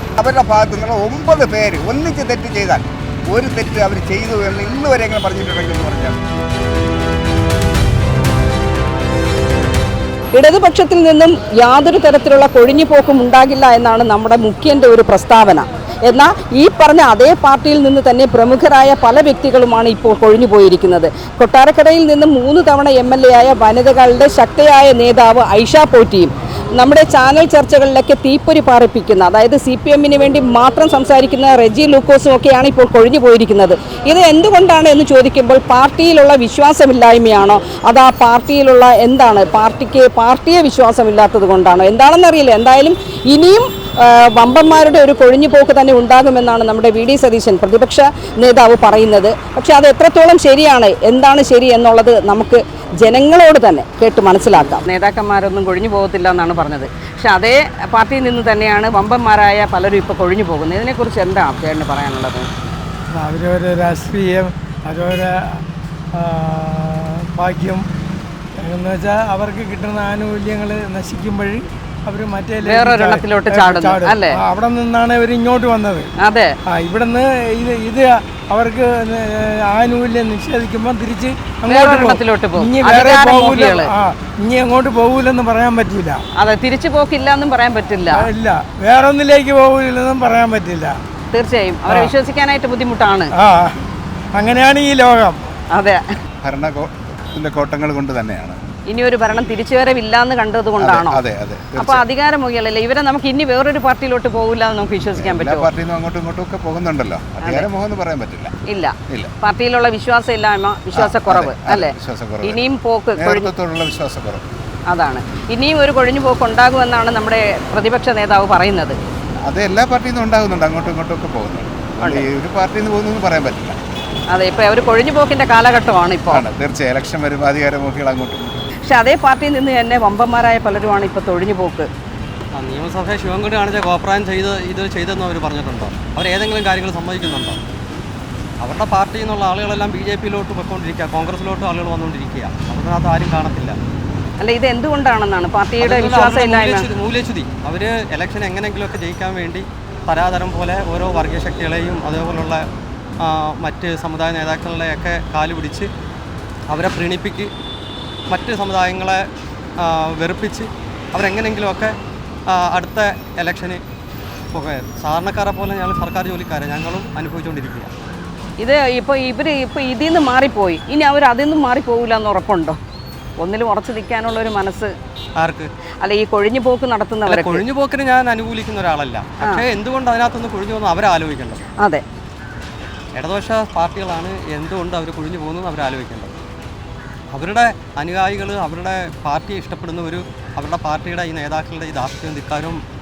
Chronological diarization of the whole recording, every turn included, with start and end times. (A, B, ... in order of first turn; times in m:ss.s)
0:00.2-0:06.2 A
0:10.3-1:02.5 B
1:03.1-1:07.8 C
1:08.6-1:16.1 C
1:12.6-1:14.4 B
1:16.2-1:16.5 B
1:16.6-1:26.2 C
1:21.7-1:23.9 B
1:26.4-1:28.3 B
1:28.1-1:31.0 C
1:31.3-1:33.3 B
1:31.9-1:32.1 C
1:33.3-1:33.8 C
1:34.3-1:35.4 C
1:35.7-1:36.0 B
1:36.4-1:38.6 D
1:38.9-1:41.2 B
1:40.8-1:42.0 D
1:41.8-1:45.7 B
1:45.1-1:48.5 D
1:47.4-1:47.7 B
1:48.7-1:53.5 B
1:50.9-1:54.4 D
1:54.9-1:59.0 B
1:59.4-2:03.8 D
2:02.0-2:02.3 B
2:04.3-2:06.4 B
2:06.3-2:08.6 D
2:08.8-2:11.9 B
2:12.5-2:17.6 E
2:18.6-2:23.8 E
2:24.4-2:26.8 B
2:25.8-2:32.6 E
2:33.2-2:35.9 E
2:36.7-2:37.5 E
2:38.3-2:39.2 E
2:39.8-2:41.9 E
2:42.5-2:43.8 E
2:44.5-2:47.9 E
2:48.6-2:52.8 B
2:53.4-2:54.9 B
2:55.4-2:55.7 E
2:56.0-2:57.6 B
2:57.2-3:01.6 E
3:01.8-3:02.0 B
3:03.2-3:06.3 E
3:07.3-3:12.8 E